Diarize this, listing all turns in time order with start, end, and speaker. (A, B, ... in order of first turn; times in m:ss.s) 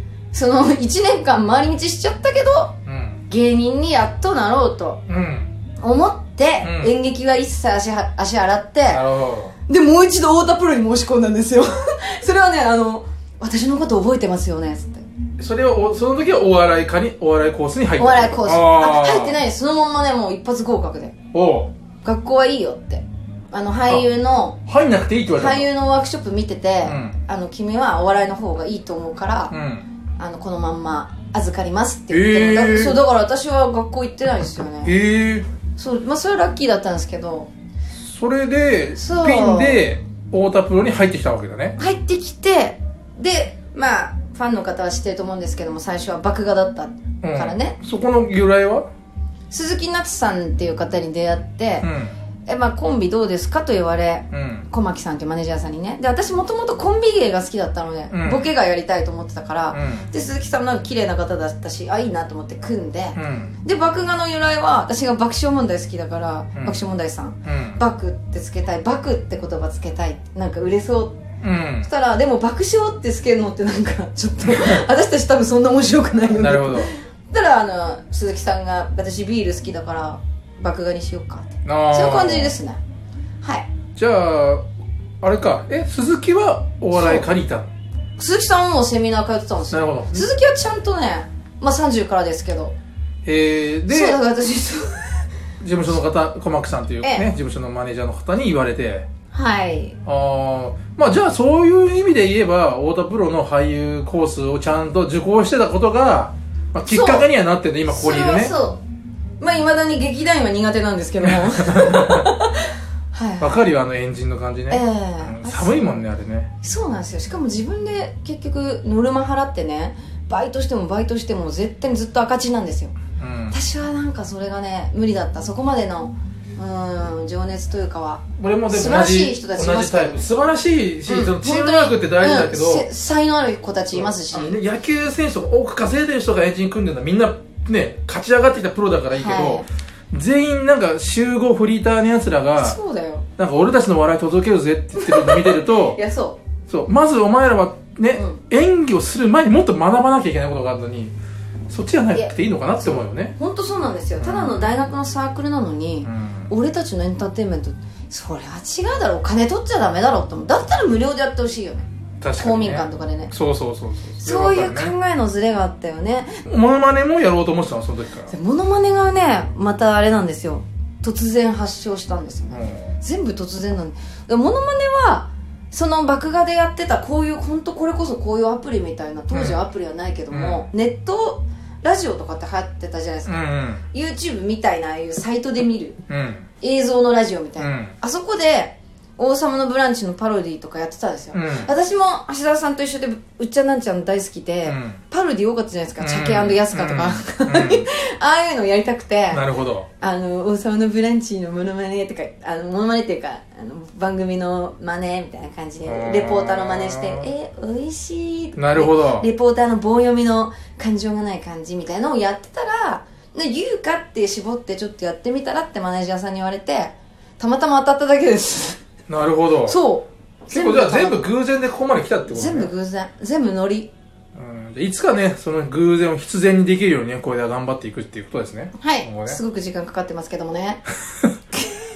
0:00.3-0:02.8 A
0:02.8-0:03.2 B
0:03.3-0:05.0 A
0:05.1-0:05.5 B
0:05.8-0:09.0 A
0:06.6-0:06.9 B
0:08.9-0:09.5 B
0:09.7-0:15.0 A
0:15.4-0:19.4 B
0:18.0-0:21.1 A
0:21.3-0:21.7 B
0:22.0-0:24.6 A
0:24.6-0:25.7 B
0:25.3-0:29.5 A
0:26.8-0:27.1 B
0:29.5-0:29.9 B
0:30.2-0:34.9 A
0:32.1-0:33.0 B
0:34.8-0:35.5 B
0:35.8-0:37.5 A
0:38.0-0:41.8 B
0:39.0-0:39.8 A
0:41.8-0:47.8 A
0:47.2-0:48.8 B
0:49.5-0:51.9 A
0:51.8-0:52.2 B
0:52.4-1:11.2 A
0:54.3-0:54.7 B
0:58.1-0:58.5 B
0:59.7-1:00.1 B
1:03.1-1:03.5 B
1:06.6-1:06.8 B
1:07.4-1:07.8 B
1:11.4-1:11.9 B
1:11.8-1:22.8 A
1:14.4-1:14.8 B
1:16.3-1:16.9 B
1:21.6-1:22.6 B
1:23.4-1:23.7 A
1:24.0-1:24.6 B
1:25.2-1:27.7 B
1:26.9-1:27.3 A
1:28.2-1:32.7 A
1:29.7-1:30.3 B
1:33.2-1:34.2 B
1:33.9-1:35.2 A
1:35.6-1:39.1 B
1:37.0-1:37.3 A
1:39.3-1:40.0 A
1:40.0-1:48.5 B
1:46.8-1:47.3 A
1:47.9-1:48.8 A
1:49.4-1:53.6 A
1:51.2-1:52.3 B
1:53.4-1:56.5 B
1:54.7-1:55.8 A
1:56.6-2:03.0 A
2:03.2-2:03.6 B
2:03.5-2:10.3 A
2:08.4-2:12.9 B
2:11.1-2:14.6 A
2:13.9-2:22.8 B
2:19.2-2:19.6 A
2:22.6-2:23.2 A
2:23.4-2:26.0 B
2:25.0-2:26.4 A
2:26.7-2:31.1 B
2:28.1-2:28.4 A
2:31.7-2:33.3 B
2:32.9-2:43.3 A
2:34.2-2:34.6 B
2:36.0-2:36.5 B
2:42.2-2:44.9 B
2:44.2-2:46.4 A
2:46.4-2:48.3 B
2:48.3-3:06.0 A
2:52.5-2:52.9 B
2:59.3-2:59.6 B
3:00.3-3:00.6 B
3:03.2-3:03.8 B
3:06.1-3:06.5 B
3:06.6-3:19.4 A
3:07.6-3:07.9 B
3:11.3-3:11.7 B
3:14.7-3:15.0 B
3:16.0-3:17.9 B
3:19.3-3:19.9 B
3:20.0-3:38.8 A
3:25.8-3:27.3 B
3:28.6-3:29.3 B
3:39.1-3:39.8 B
3:39.7-3:41.2 A
3:40.5-3:42.7 B
3:42.3-3:43.9 A
3:44.3-3:49.4 B
3:48.8-3:50.8 A